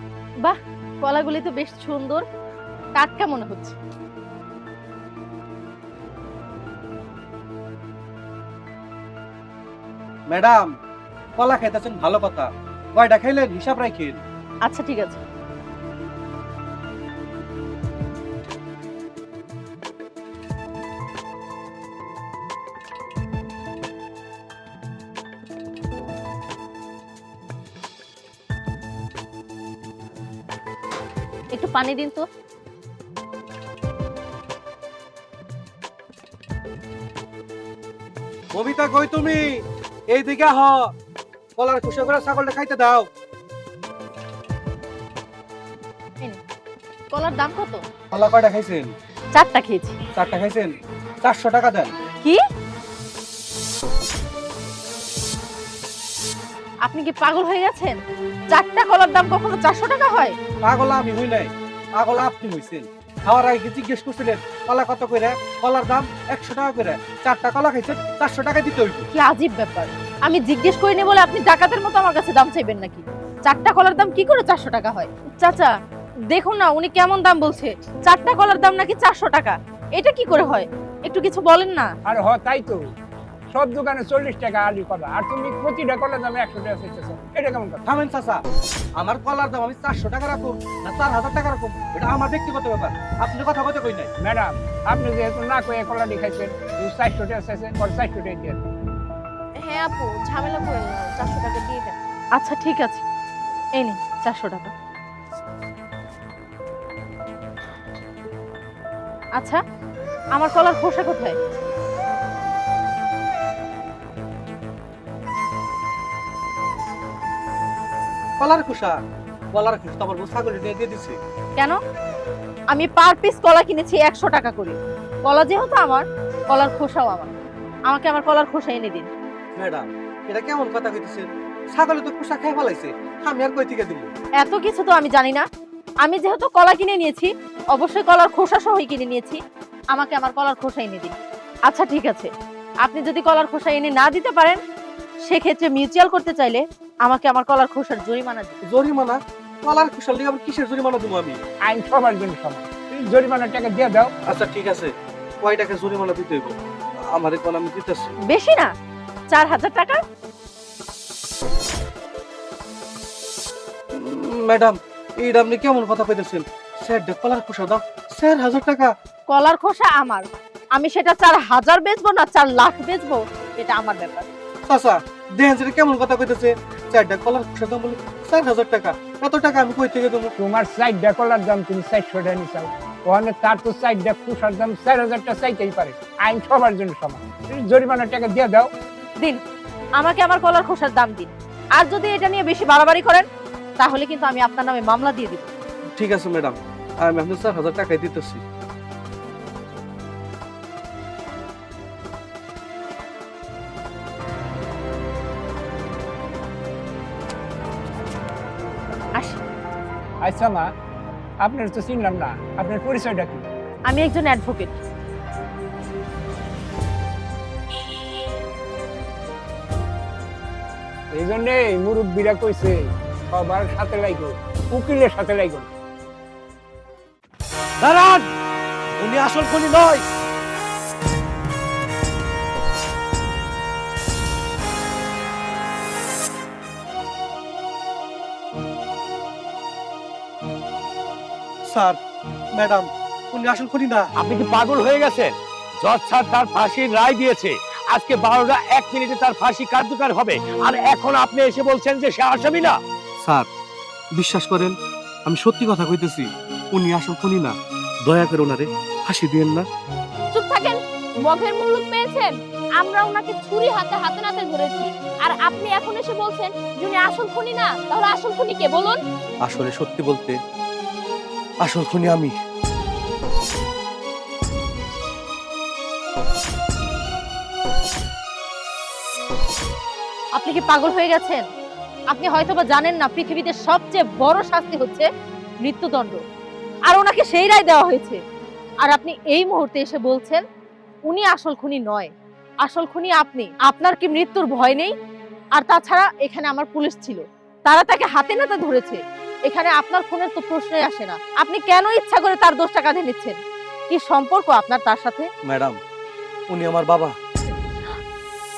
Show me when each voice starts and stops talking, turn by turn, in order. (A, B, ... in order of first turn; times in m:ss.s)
0:00.4-0:02.2 A
0:03.0-0:03.8 A
0:10.3-0:10.7 B
0:11.4-0:14.2 B
0:14.6-0:15.2 A
0:31.5-0:32.2 A
0:38.5-0:39.4 B
0:40.1-0:40.9 B
0:41.6-0:43.1 B
0:47.1-0:47.8 A
0:48.1-0:48.9 B
0:49.3-0:50.0 A
0:50.2-0:50.7 B
0:51.2-0:51.9 B
0:56.8-0:58.0 A
0:58.5-1:00.4 A
1:00.7-1:09.1 B
1:09.1-1:15.7 A
1:16.3-1:21.9 A
1:22.1-1:22.9 C
1:23.5-1:27.8 C
1:27.8-1:28.4 B
1:29.0-1:34.1 B
1:34.2-1:38.6 C
1:42.4-1:43.0 A
1:43.8-1:44.7 A
1:49.4-1:49.6 A
1:50.3-1:51.4 A
1:58.4-1:59.0 B
1:59.5-2:01.2 B
2:02.7-2:07.3 A
2:07.9-2:09.1 A
2:09.6-2:14.1 B
2:14.4-2:15.4 A
2:16.0-2:19.4 A
2:19.9-2:21.1 A
2:21.7-2:22.3 A
2:22.8-2:24.6 A
2:25.2-2:28.6 A
2:28.7-2:31.4 B
2:31.6-2:34.1 C
2:34.3-2:36.5 B
2:37.1-2:38.1 B
2:38.3-2:38.7 A
2:39.3-2:40.0 A
2:43.9-2:48.9 B
2:49.3-2:54.2 A
2:54.7-3:00.3 B
3:00.4-3:08.7 C
3:10.0-3:13.2 A
3:13.8-3:15.5 A
3:16.0-3:18.4 B
3:30.2-3:30.7 C
3:31.4-3:33.4 C
3:33.9-3:34.8 A
3:41.2-3:45.7 C
3:47.8-3:48.2 B
3:49.0-3:50.0 B
4:01.7-4:02.0 B
4:02.6-4:04.0 B
4:04.2-4:12.8 D
4:14.2-4:14.7 B
4:15.2-4:19.7 B
4:20.3-4:29.0 E
4:29.4-4:30.4 B
4:31.6-4:32.3 B
4:40.4-4:41.5 A
4:42.1-4:45.1 A
4:45.6-4:46.2 A
4:46.9-4:48.2 A
4:48.8-4:50.4 A
4:51.1-4:52.1 A
4:52.6-4:54.9 A
4:55.6-5:03.4 A
5:03.9-5:05.3 A
5:05.5-5:05.8 B
5:06.5-5:07.1 B